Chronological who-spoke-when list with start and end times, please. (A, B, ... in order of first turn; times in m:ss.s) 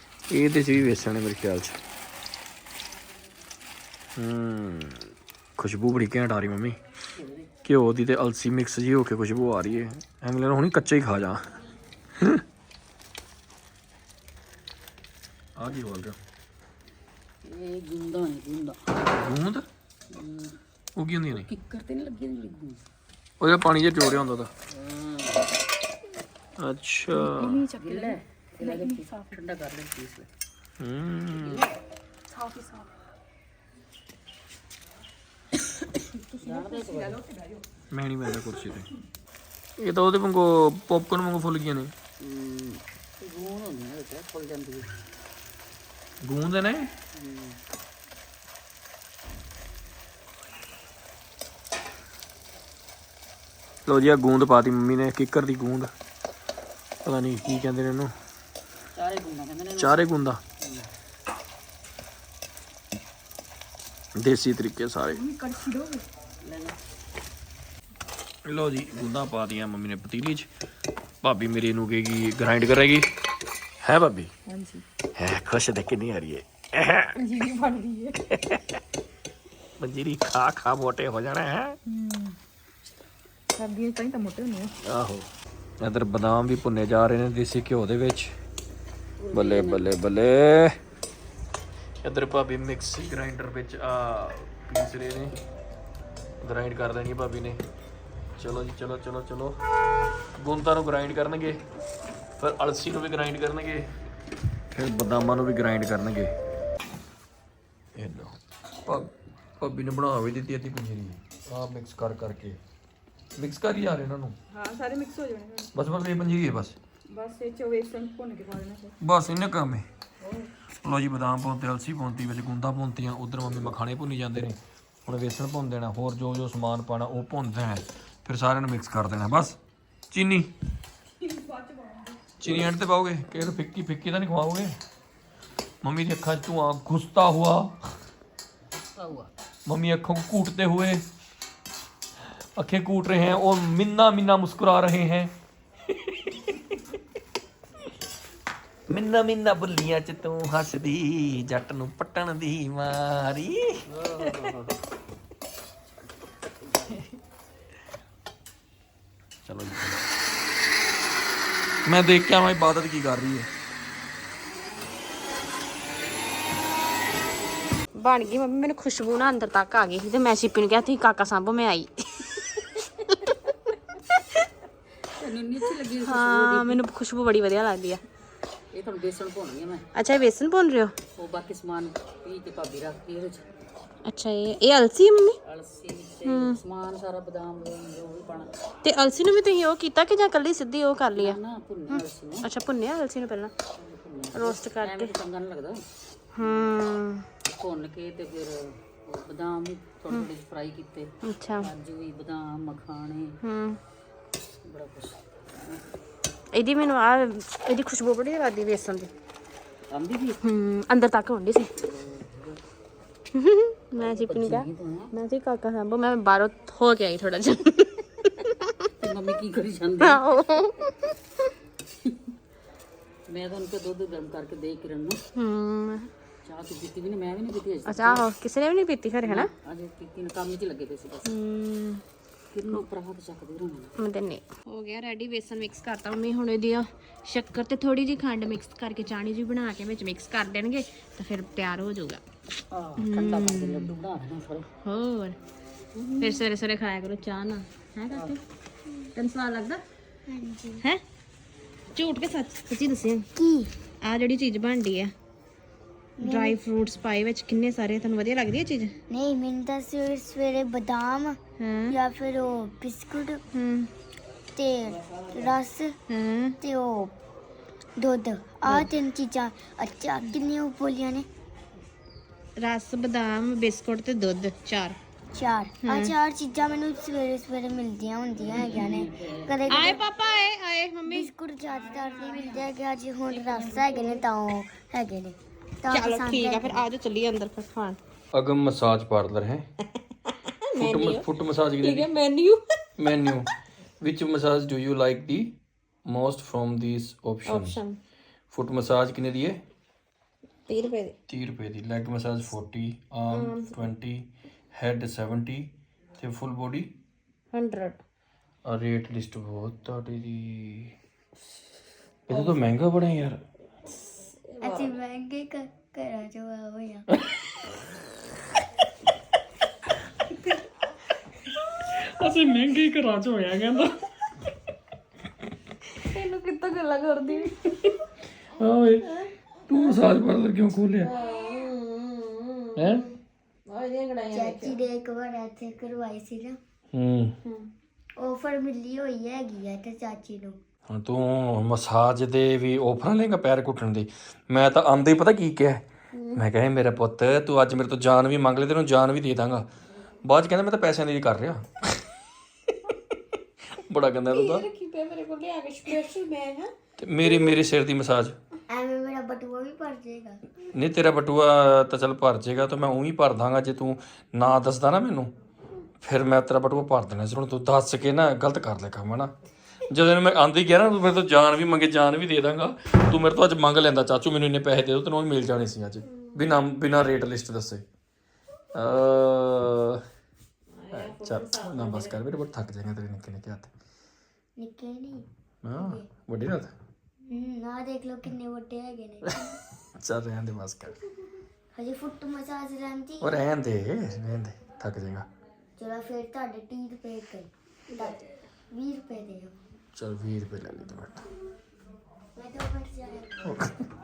0:00.3-0:01.8 A
0:04.2-0:06.8 A
0:07.2-0:07.5 B
0:07.6-0:11.5 A
0:12.2-0:12.4 A
0:15.6-0:16.2 A
0:17.4-0:18.8 B
0:19.1-0:19.7 A
0:20.1-0:20.6 B
0:21.0-0:21.5 A
0:21.3-0:22.8 B
0:23.4-0:24.5 A
0:24.7-0:25.4 B
0:26.6-0:27.6 A
0:27.2-0:29.4 C
0:27.8-0:30.3 B
0:30.8-0:31.7 A
0:31.4-0:31.7 B
0:32.3-0:32.9 C
0:36.1-0:37.6 C
0:36.4-0:37.2 B
0:37.9-0:38.9 A
0:39.8-0:41.9 A
0:42.2-0:45.0 B
0:46.2-0:46.9 A
0:47.2-0:47.6 B
0:53.9-0:55.9 A
0:57.0-0:58.1 A
0:58.9-1:00.1 B
0:59.8-1:00.4 A
1:00.6-1:00.9 B
1:04.2-1:05.2 A
1:05.1-1:06.0 C
1:06.4-1:06.8 B
1:08.4-1:10.5 A
1:11.2-1:13.1 A
1:13.8-1:14.3 A
1:14.5-1:14.8 C
1:15.2-1:17.2 A
1:17.2-1:18.2 C
1:18.3-1:18.8 A
1:19.8-1:21.8 A
1:21.9-1:22.4 C
1:23.6-1:24.7 C
1:24.8-1:25.3 A
1:25.8-1:28.3 A
1:29.2-1:29.9 B
1:29.3-1:30.8 A
1:32.0-1:35.4 A
1:36.4-1:37.6 A
1:38.4-1:39.6 A
1:40.4-1:41.6 A
1:42.4-1:43.9 A
1:44.7-1:46.3 A
1:48.0-1:52.6 A
1:53.4-1:54.4 A
1:54.5-1:55.7 C
1:55.7-1:56.8 A
1:57.1-1:59.0 C
1:59.0-1:59.9 A
2:00.8-2:09.6 A
2:10.1-2:10.5 A
2:11.2-2:12.1 C
2:12.4-2:14.8 A
2:15.8-2:17.7 A
2:18.9-2:19.3 B
2:19.7-2:21.0 A
2:22.6-2:25.3 A
2:25.9-2:26.6 A
2:28.9-2:34.6 A
2:34.0-2:34.4 B
2:36.6-2:37.0 B
2:39.4-2:40.0 A
2:41.8-2:43.5 A
2:48.0-2:52.3 D
2:55.2-2:56.9 B
2:56.0-2:58.0 D
2:58.7-2:59.8 B
3:00.0-3:01.0 D
3:01.2-3:03.4 B
3:04.0-3:05.4 D
3:05.4-3:08.5 B
3:06.2-3:06.6 D
3:08.8-3:13.5 D
3:11.2-3:12.5 B
3:13.8-3:15.8 B
3:14.3-3:15.1 D
3:16.4-3:17.3 D
3:16.4-3:16.8 B
3:17.5-3:23.4 B
3:21.2-3:21.7 D
3:23.4-3:23.8 D
3:24.6-3:25.8 B
3:26.5-3:29.1 D
3:29.9-3:30.4 B
3:30.4-3:31.7 D
3:31.8-3:32.6 B
3:33.3-3:38.6 D
3:34.0-3:35.1 B
3:39.0-3:40.3 B
3:40.0-3:40.9 D
3:43.3-3:45.2 B
3:45.4-3:46.1 D
3:46.4-3:48.3 B
3:47.9-3:49.5 D
3:49.2-3:51.3 B
3:51.2-3:52.0 D
3:52.5-3:54.0 B
3:54.0-4:02.2 D
4:02.7-4:04.7 B
4:03.0-4:03.9 D
4:04.8-4:05.4 D
4:06.1-4:06.4 E
4:06.2-4:08.4 D
4:08.1-4:08.4 B
4:09.2-4:09.8 D
4:10.3-4:10.9 E
4:12.0-4:13.3 D
4:13.4-4:13.7 E
4:14.0-4:15.1 D
4:16.2-4:16.6 E
4:16.2-4:19.0 D
4:19.1-4:23.4 E
4:21.6-4:21.9 D
4:23.5-4:23.9 D
4:24.6-4:26.0 E
4:26.1-4:26.6 D
4:26.6-4:27.1 E
4:28.0-4:31.3 E
4:32.6-4:35.0 D
4:35.3-4:40.1 E
4:35.8-4:36.1 D
4:38.4-4:40.0 B
4:39.7-4:41.3 D
4:41.0-4:46.9 E
4:41.7-4:42.7 B
4:43.3-4:44.2 B
4:45.9-4:48.0 D
4:48.3-4:49.7 A
4:50.8-4:51.2 D
4:50.8-4:52.1 A
4:51.8-4:52.6 D
4:53.0-4:55.6 A
4:56.1-4:57.8 A
4:57.5-4:58.0 D
4:58.5-4:59.6 A
5:00.7-5:01.1 D
5:01.3-5:06.9 A
5:03.3-5:03.7 D
5:07.5-5:08.0 D
5:08.6-5:10.9 A
5:12.3-5:13.4 A
5:14.6-5:17.1 E
5:21.8-5:23.9 A
5:26.1-5:27.5 D
5:28.6-5:29.2 A
5:29.7-5:31.1 A
5:31.2-5:32.9 D
5:32.8-5:33.1 A
5:33.7-5:34.6 D
5:34.3-5:36.6 E
5:36.9-5:37.4 A
5:38.2-5:40.6 E
5:40.9-5:49.7 A
5:50.2-5:51.9 A
5:53.7-5:54.6 A
5:54.3-5:56.7 D
5:57.0-5:58.4 A
5:58.7-6:00.4 E
6:00.7-6:05.3 A
6:06.0-6:09.3 A
6:09.9-6:17.8 A
6:18.8-6:20.0 A
6:20.8-6:23.7 A
6:24.6-6:25.2 E
6:25.6-6:26.7 A
6:25.8-6:26.1 E
6:27.3-6:29.6 E
6:30.0-6:31.0 A
6:31.8-6:33.4 E
6:33.2-6:35.3 A
6:35.8-6:38.2 E
6:38.7-6:39.6 E
6:40.0-6:41.2 A
6:42.4-6:43.6 E
6:43.5-6:43.8 A